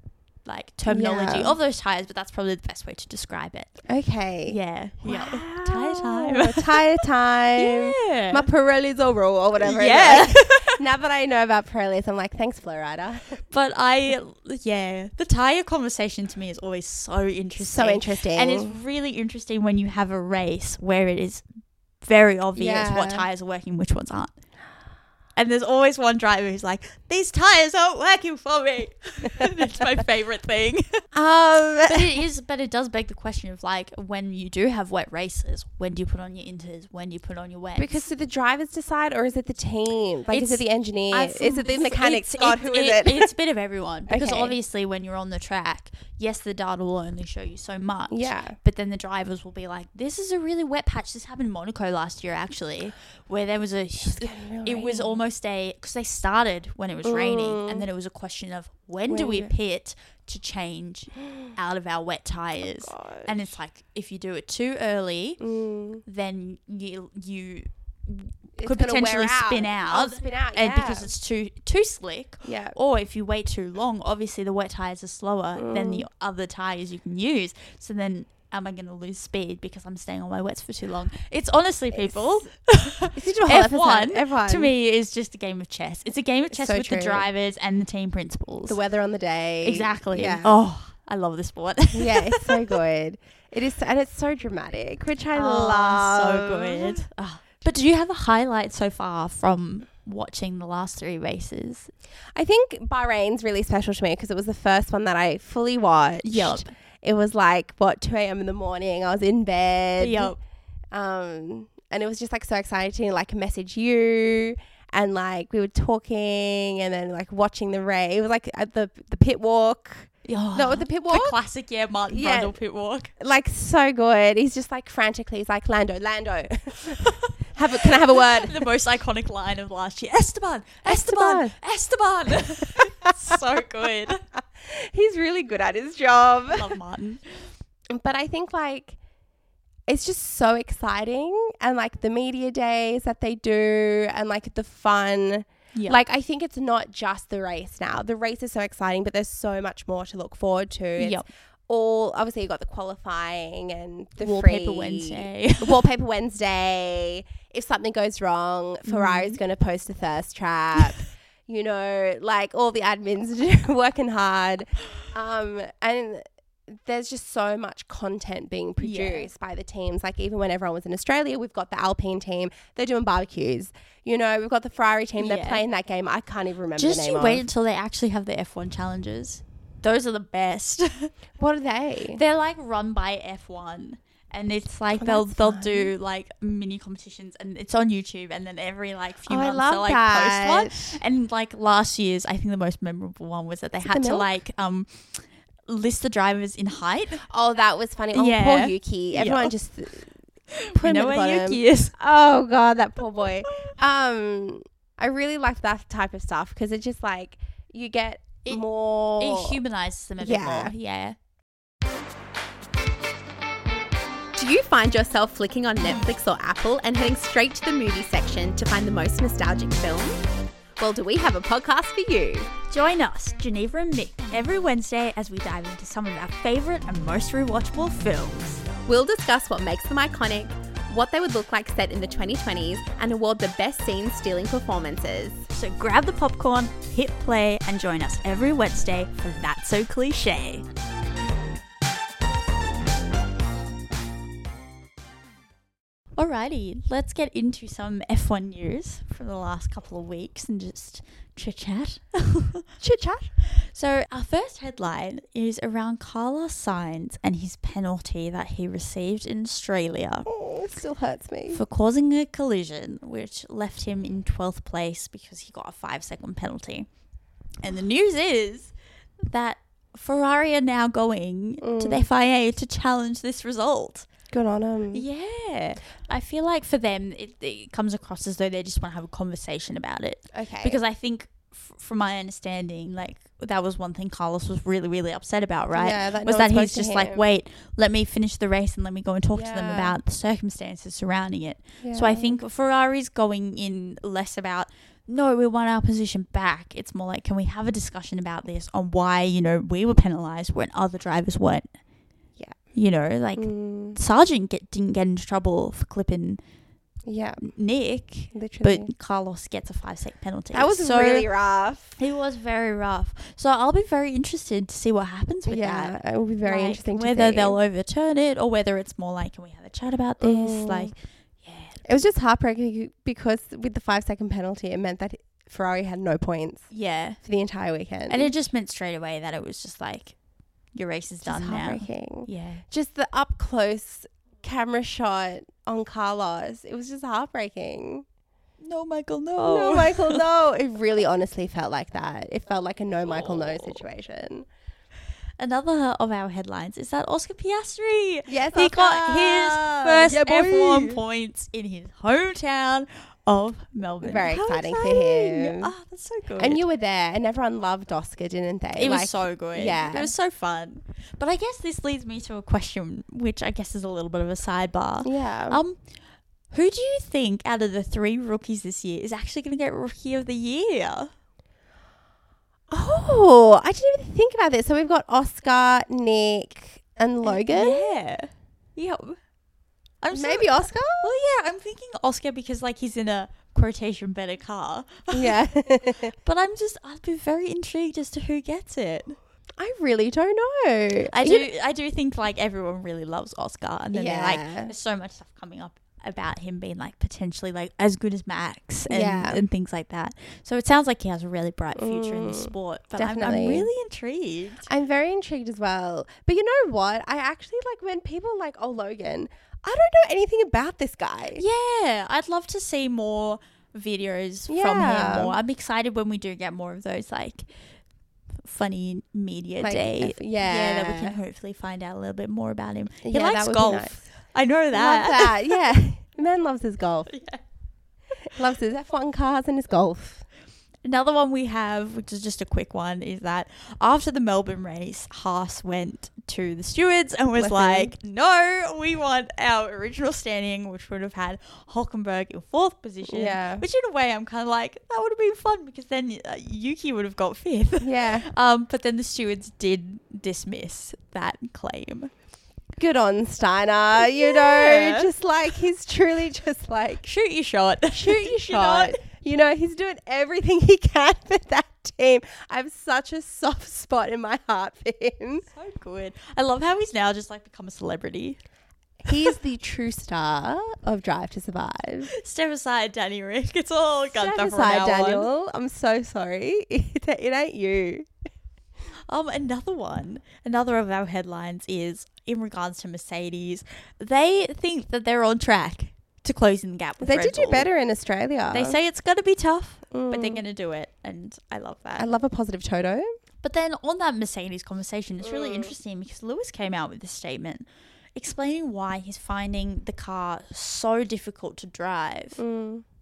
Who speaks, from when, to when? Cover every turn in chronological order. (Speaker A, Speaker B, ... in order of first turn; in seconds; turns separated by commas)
Speaker A: 0.4-3.7, Speaker B: 0.9-1.6, Speaker B: 3.9-13.4, Speaker A: 4.5-7.0, Speaker A: 7.5-8.5, Speaker A: 9.6-10.8, Speaker A: 13.5-21.4, Speaker B: 17.6-18.8, Speaker A: 22.0-24.3, Speaker B: 22.6-23.3, Speaker A: 25.4-31.0, Speaker B: 31.1-32.1, Speaker A: 31.9-38.1, Speaker B: 37.8-43.3, Speaker A: 40.3-65.4, Speaker B: 44.1-44.5, Speaker B: 48.1-48.6, Speaker B: 54.0-55.2, Speaker B: 57.0-57.9, Speaker B: 59.1-59.5, Speaker B: 62.6-63.5, Speaker B: 65.4-66.0, Speaker A: 66.0-88.8, Speaker B: 68.6-71.1, Speaker B: 72.4-72.8, Speaker B: 75.5-76.0, Speaker B: 81.9-82.3, Speaker B: 83.1-84.7, Speaker B: 86.5-87.3, Speaker B: 88.7-90.6, Speaker A: 89.6-92.8, Speaker B: 91.9-97.1, Speaker A: 95.3-101.9, Speaker B: 102.3-110.3, Speaker A: 106.2-106.7, Speaker A: 110.0-110.4, Speaker B: 110.9-121.3, Speaker A: 120.2-123.1, Speaker B: 122.1-122.6, Speaker B: 123.2-128.7, Speaker A: 126.9-134.2, Speaker B: 130.8-131.5, Speaker B: 132.5-133.3, Speaker B: 134.5-136.7, Speaker A: 136.5-137.2, Speaker B: 137.9-139.0, Speaker B: 139.9-177.4, Speaker A: 151.0-151.3, Speaker A: 154.2-155.8, Speaker A: 158.9-159.4, Speaker A: 168.8-169.3, Speaker A: 175.2-175.6, Speaker A: 176.8-181.1, Speaker B: 181.4-182.2, Speaker A: 182.1-197.2, Speaker B: 184.9-185.9, Speaker B: 189.2-191.0, Speaker B: 193.8-194.3, Speaker B: 197.2-200.1, Speaker A: 198.1-199.5, Speaker A: 200.5-201.9, Speaker B: 200.7-209.6, Speaker A: 209.2-211.2, Speaker B: 210.2-210.7, Speaker C: 214.4-220.2, Speaker C: 220.8-222.5, Speaker A: 222.7-228.7, Speaker C: 228.9-235.4, Speaker A: 235.5-240.6, Speaker A: 246.2-252.7, Speaker B: 252.8-253.3, Speaker A: 253.5-260.3, Speaker B: 260.3-261.6, Speaker A: 261.5-266.9, Speaker A: 267.6-274.1, Speaker B: 271.6-272.1, Speaker B: 274.3-275.0, Speaker A: 274.9-301.7, Speaker B: 280.3-280.8, Speaker B: 285.7-287.2, Speaker B: 289.3-290.0, Speaker B: 291.8-292.4, Speaker A: 302.7-306.4, Speaker B: 303.4-304.0, Speaker B: 307.1-307.5, Speaker A: 307.4-311.3, Speaker B: 308.3-308.9, Speaker B: 310.5-312.0, Speaker A: 312.0-321.8, Speaker B: 315.4-317.6, Speaker B: 320.2-320.9, Speaker B: 321.8-328.3, Speaker A: 326.7-327.2, Speaker A: 328.1-330.1, Speaker A: 330.7-332.6, Speaker B: 331.2-338.0, Speaker A: 338.6-340.2, Speaker B: 339.4-344.4, Speaker A: 345.4-356.6, Speaker B: 348.3-351.0, Speaker B: 354.0-355.7, Speaker B: 356.4-360.1, Speaker A: 358.7-365.8, Speaker B: 365.0-365.6, Speaker A: 366.5-371.1, Speaker B: 372.7-377.9, Speaker A: 377.2-379.2, Speaker A: 380.0-385.4, Speaker B: 380.1-381.1, Speaker B: 385.1-386.1, Speaker A: 386.2-389.2, Speaker B: 389.6-391.5, Speaker A: 391.1-404.7, Speaker B: 393.9-394.7, Speaker B: 398.9-399.4, Speaker B: 401.8-403.7, Speaker B: 404.7-411.4, Speaker A: 411.4-417.5, Speaker B: 414.5-415.4, Speaker A: 418.4-425.5, Speaker B: 419.6-421.1, Speaker B: 423.0-424.1, Speaker B: 424.7-427.1, Speaker A: 427.1-427.4, Speaker B: 428.3-430.2, Speaker A: 430.8-452.1, Speaker B: 437.4-437.9, Speaker B: 443.1-443.6, Speaker B: 447.8-448.3, Speaker B: 452.8-457.0, Speaker A: 454.0-455.1, Speaker A: 457.0-459.0, Speaker B: 457.9-465.4, Speaker A: 465.5-468.4, Speaker B: 469.0-472.1, Speaker A: 472.1-475.3, Speaker B: 474.1-478.1, Speaker A: 479.1-487.7, Speaker B: 487.0-488.8, Speaker A: 488.5-492.1, Speaker B: 489.9-490.4, Speaker B: 492.0-493.1, Speaker A: 493.4-497.6, Speaker B: 495.2-495.7, Speaker A: 498.1-502.4, Speaker B: 502.4-502.8